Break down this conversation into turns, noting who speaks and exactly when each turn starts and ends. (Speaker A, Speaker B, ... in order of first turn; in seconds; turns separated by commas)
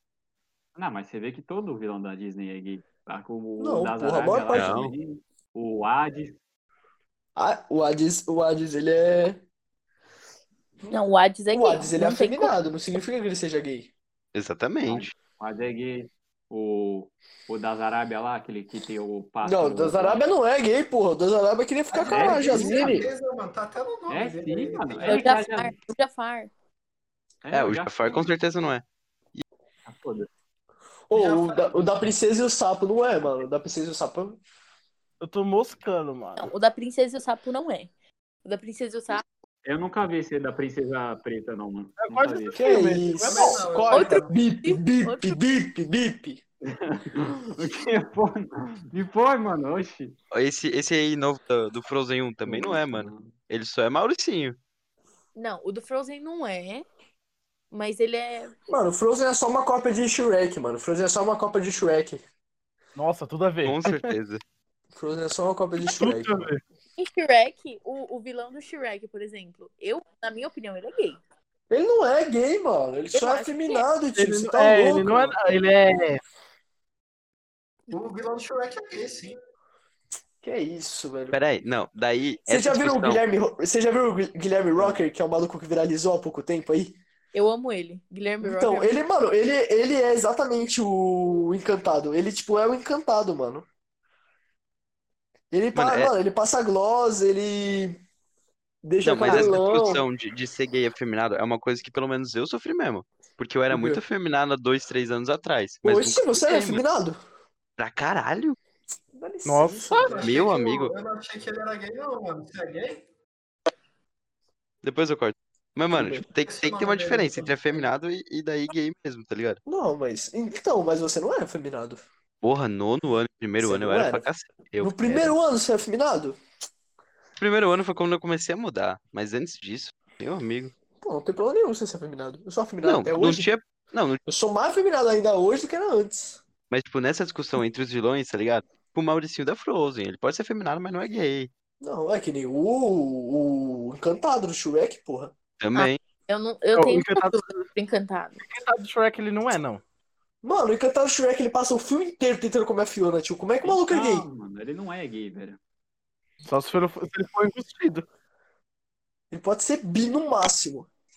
Speaker A: 0.7-6.4, Speaker B: 3.6-4.8, Speaker C: 4.5-4.9, Speaker B: 7.3-9.4, Speaker D: 10.9-12.6, Speaker B: 11.5-13.9, Speaker C: 14.3-15.1, Speaker A: 14.9-20.2, Speaker B: 19.4-23.1, Speaker E: 21.9-25.2, Speaker A: 22.1-23.0, Speaker A: 24.1-25.7, Speaker D: 25.1-26.5, Speaker A: 27.4-28.3, Speaker C: 27.5-29.4, Speaker A: 29.9-30.3, Speaker B: 31.1-34.4, Speaker E: 31.1-32.1, Speaker F: 35.2-36.5, Speaker D: 36.4-37.9, Speaker D: 38.4-39.2, Speaker A: 39.6-42.6, Speaker F: 42.0-43.7, Speaker B: 42.5-46.4, Speaker E: 43.2-44.6, Speaker D: 43.9-45.4, Speaker A: 46.6-50.1, Speaker C: 50.3-54.6, Speaker A: 52.4-53.3, Speaker D: 55.4-56.9, Speaker D: 57.7-58.5, Speaker B: 58.7-62.2, Speaker F: 63.0-64.1, Speaker C: 63.6-64.4, Speaker B: 64.9-66.4, Speaker F: 65.9-66.6, Speaker D: 67.0-71.2, Speaker B: 71.7-75.5, Speaker D: 73.1-73.8, Speaker F: 74.2-76.2, Speaker E: 77.9-79.3, Speaker B: 80.4-81.3, Speaker C: 81.3-83.2, Speaker B: 82.5-87.0, Speaker D: 87.3-88.9, Speaker B: 88.4-93.7, Speaker B: 95.5-98.0, Speaker C: 95.7-96.1, Speaker B: 98.8-100.0, Speaker C: 99.0-106.8, Speaker B: 103.7-104.0, Speaker B: 105.8-107.2, Speaker C: 107.8-108.6, Speaker B: 109.1-110.3, Speaker F: 109.5-110.3, Speaker E: 109.9-113.0, Speaker C: 110.2-110.9, Speaker C: 114.8-119.6, Speaker B: 115.9-116.2, Speaker E: 116.4-117.8, Speaker B: 119.7-122.0, Speaker C: 122.4-125.3, Speaker B: 123.6-124.2, Speaker B: 124.8-126.4, Speaker C: 127.4-130.7, Speaker B: 131.0-133.5, Speaker C: 132.8-134.2, Speaker B: 134.2-136.4, Speaker C: 136.7-141.5, Speaker B: 141.8-145.3, Speaker C: 145.6-146.0, Speaker D: 145.7-148.4, Speaker F: 146.7-147.7, Speaker F: 148.4-149.8, Speaker B: 150.4-154.2, Speaker A: 153.6-155.6, Speaker F: 156.4-158.1, Speaker B: 159.3-160.9